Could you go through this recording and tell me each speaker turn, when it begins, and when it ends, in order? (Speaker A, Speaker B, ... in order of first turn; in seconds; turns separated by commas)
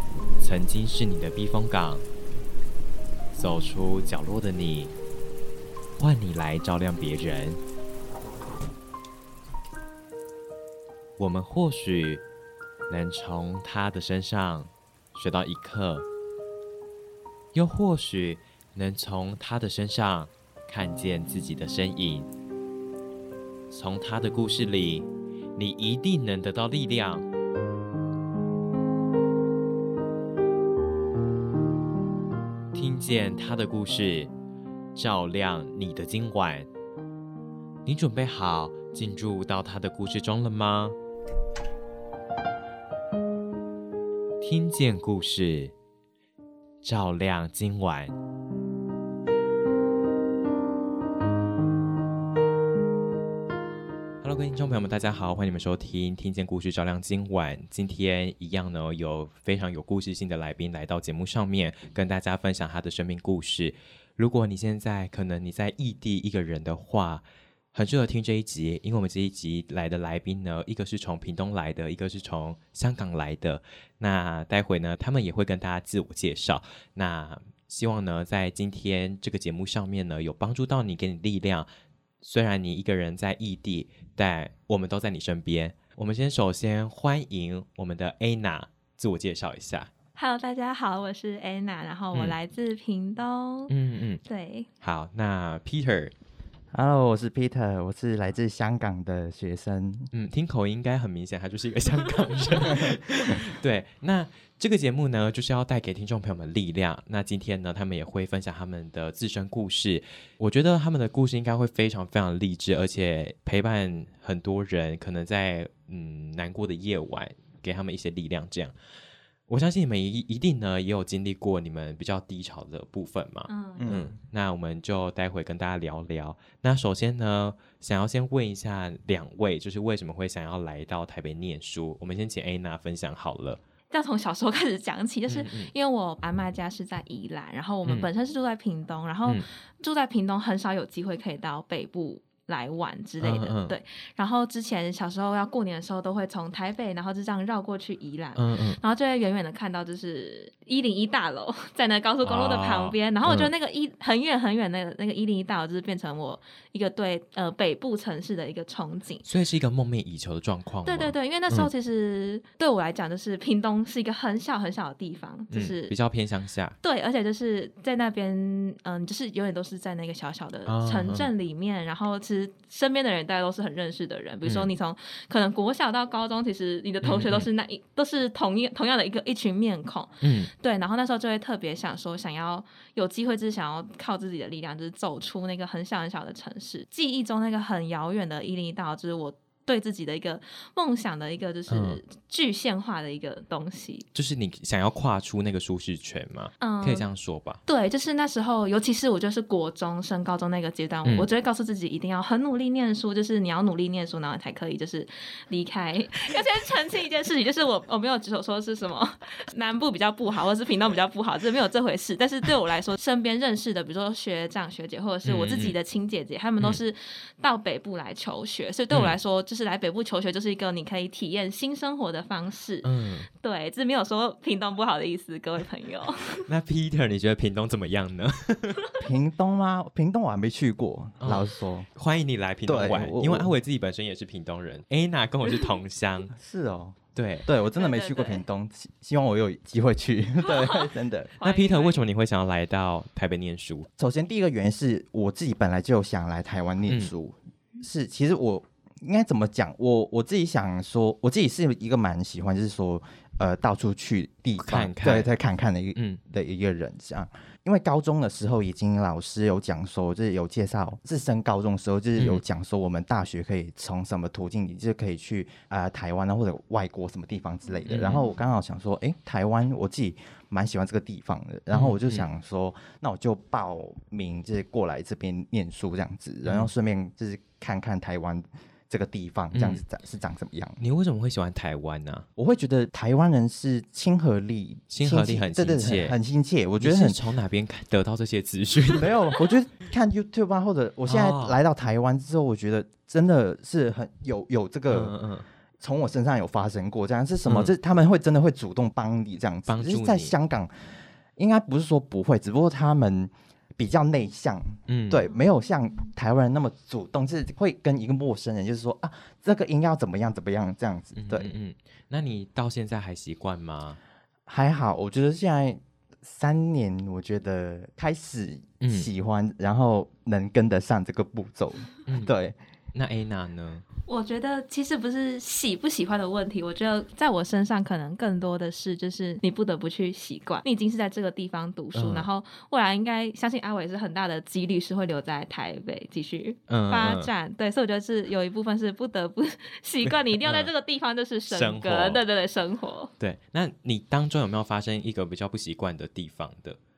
Speaker A: 0.4-2.1, Speaker A: 3.3-4.9, Speaker A: 6.0-7.6, Speaker A: 11.2-12.2, Speaker A: 12.9-16.1, Speaker A: 17.5-22.3, Speaker A: 23.7-27.3, Speaker A: 32.7-34.3, Speaker A: 35.0-36.7, Speaker A: 37.9-41.0, Speaker A: 44.4-45.7, Speaker A: 46.8-48.1, Speaker A: 54.2-81.7, Speaker A: 82.2-89.9, Speaker B: 90.2-93.7, Speaker A: 93.7-94.2, Speaker B: 94.3-94.7, Speaker A: 94.8-96.1, Speaker C: 96.7-100.1, Speaker A: 100.1-118.7, Speaker A: 119.5-133.6, Speaker B: 123.5-124.0, Speaker C: 123.8-124.1, Speaker B: 133.9-159.3, Speaker A: 135.3-135.7, Speaker A: 143.2-143.8, Speaker A: 148.4-148.8, Speaker A: 152.2-153.5, Speaker A: 159.3-161.7, Speaker B: 160.9-165.9, Speaker A: 165.5-166.8, Speaker B: 166.8-194.1, Speaker A: 170.7-171.3, Speaker A: 174.4-174.7, Speaker A: 177.0-177.5, Speaker A: 180.2-180.5, Speaker A: 191.7-192.0, Speaker A: 194.2-197.6, Speaker B: 196.6-197.1, Speaker B: 197.7-226.4, Speaker A: 215.2-215.8, Speaker A: 222.8-223.3, Speaker A: 226.5-228.9, Speaker C: 229.0-231.9, Speaker A: 231.2-236.3, Speaker C: 232.7-233.5, Speaker C: 236.3-241.3, Speaker A: 237.2-237.5, Speaker B: 237.8-238.4, Speaker B: 240.4-242.0, Speaker A: 241.4-243.9, Speaker C: 244.0-280.8, Speaker A: 254.6-255.3, Speaker A: 262.2-262.4, Speaker A: 267.9-268.2, Speaker A: 271.7-272.2, Speaker A: 276.4-276.7, Speaker A: 279.5-279.8, Speaker A: 280.8-282.3, Speaker C: 282.4-287.2, Speaker A: 284.9-286.2, Speaker A: 286.8-289.4, Speaker C: 288.9-295.2, Speaker A: 291.1-291.6, Speaker A: 294.9-295.5, Speaker C: 295.8-311.5, Speaker A: 297.5-297.7, Speaker A: 299.7-300.3, Speaker A: 304.9-305.3, Speaker A: 311.2-314.0, Speaker C: 314.5-322.6, Speaker A: 318.8-319.1, Speaker A: 322.1-322.3, Speaker A: 322.9-323.9, Speaker B: 324.1-343.1, Speaker A: 331.9-332.3, Speaker A: 336.7-337.3, Speaker A: 340.1-340.7, Speaker A: 341.5-342.2, Speaker A: 343.2-346.8